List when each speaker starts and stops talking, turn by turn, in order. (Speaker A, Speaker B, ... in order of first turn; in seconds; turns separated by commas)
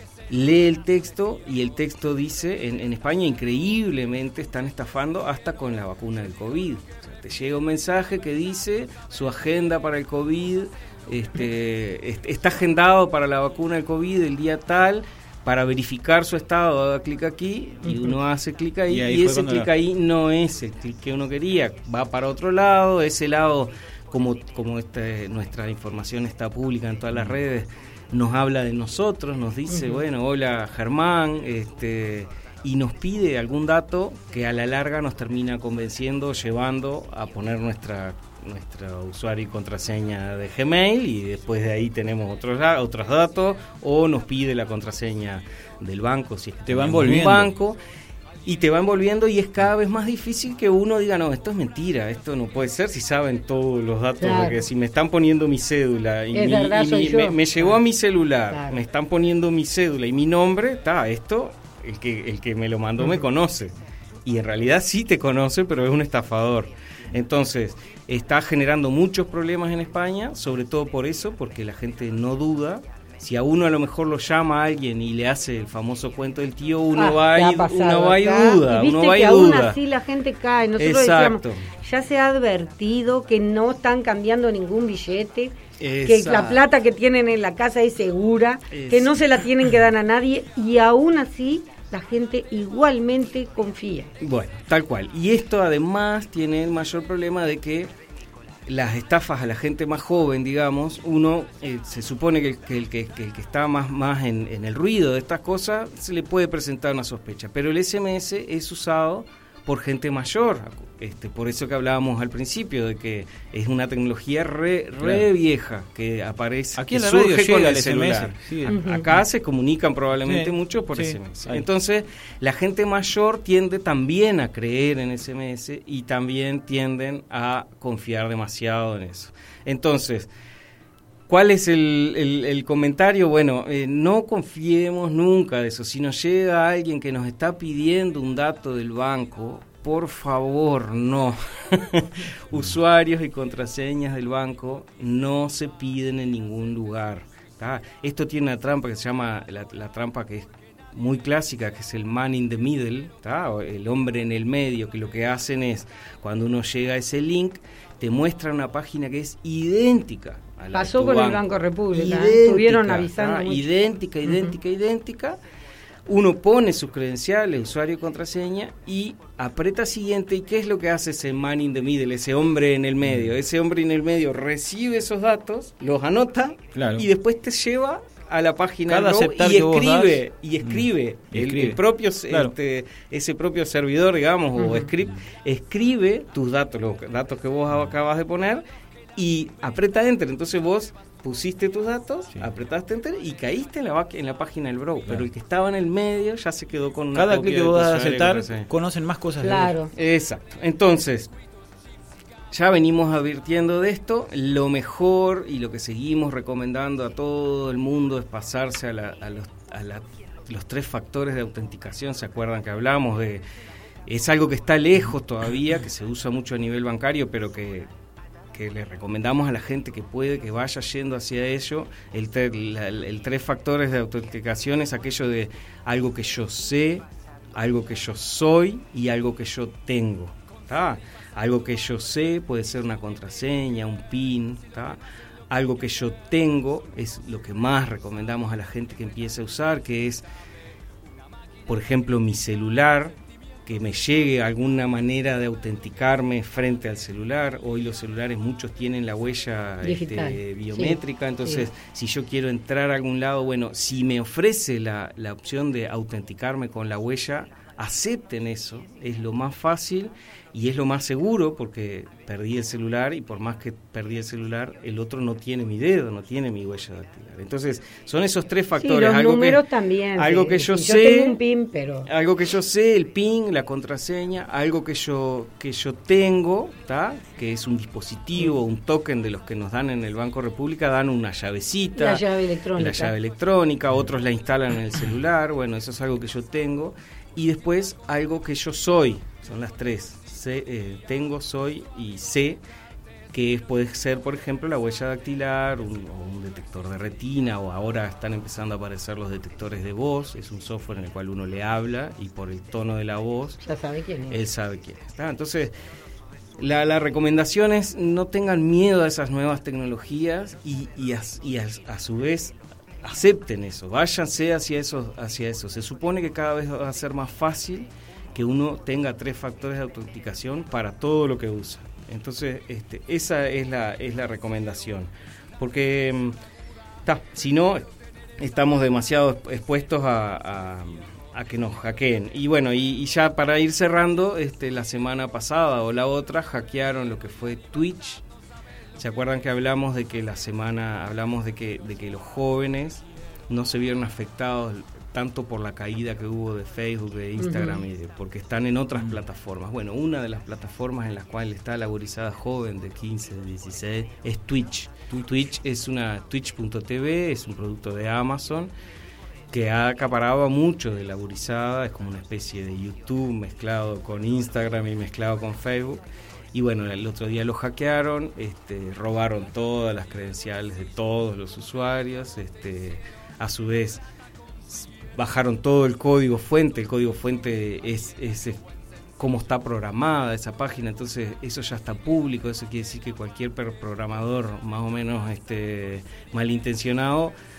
Speaker A: 0.3-47.8, Speaker B: 17.9-18.1, Speaker C: 18.9-19.7, Speaker B: 29.7-30.0, Speaker C: 46.7-47.5, Speaker A: 48.5-63.7, Speaker B: 54.2-54.6, Speaker B: 56.3-57.8, Speaker B: 58.5-58.8, Speaker A: 64.2-79.8, Speaker B: 76.9-94.1, Speaker A: 80.8-81.7, Speaker A: 85.8-86.7, Speaker A: 88.7-89.2, Speaker A: 94.2-97.9, Speaker A: 98.7-130.3, Speaker C: 115.0-115.3, Speaker C: 116.8-118.8, Speaker B: 118.7-119.1, Speaker C: 120.2-121.7, Speaker A: 131.3-165.4, Speaker B: 160.7-163.7, Speaker B: 164.3-164.5, Speaker A: 166.1-188.6, Speaker C: 176.8-177.1, Speaker C: 178.9-182.5, Speaker B: 184.6-184.9, Speaker A: 189.2-198.7, Speaker C: 197.1-199.7, Speaker B: 199.4-199.9, Speaker A: 199.9-201.3, Speaker A: 202.5-213.4, Speaker A: 214.1-217.9, Speaker A: 218.5-235.0, Speaker A: 235.5-240.2, Speaker A: 241.7-243.1, Speaker A: 243.7-269.6, Speaker B: 249.8-251.7, Speaker B: 268.8-272.1, Speaker A: 270.2-271.4, Speaker A: 272.1-282.2, Speaker B: 281.9-283.1, Speaker A: 282.8-292.6, Speaker A: 293.3-303.6, Speaker B: 303.6-304.4, Speaker A: 304.3-305.7, Speaker A: 306.6-326.4, Speaker A: 327.1-327.8, Speaker A: 328.4-338.2, Speaker A: 339.0-358.7, Speaker B: 347.4-347.8, Speaker A: 359.5-374.0, Speaker A: 374.7-378.6, Speaker A: 379.2-387.3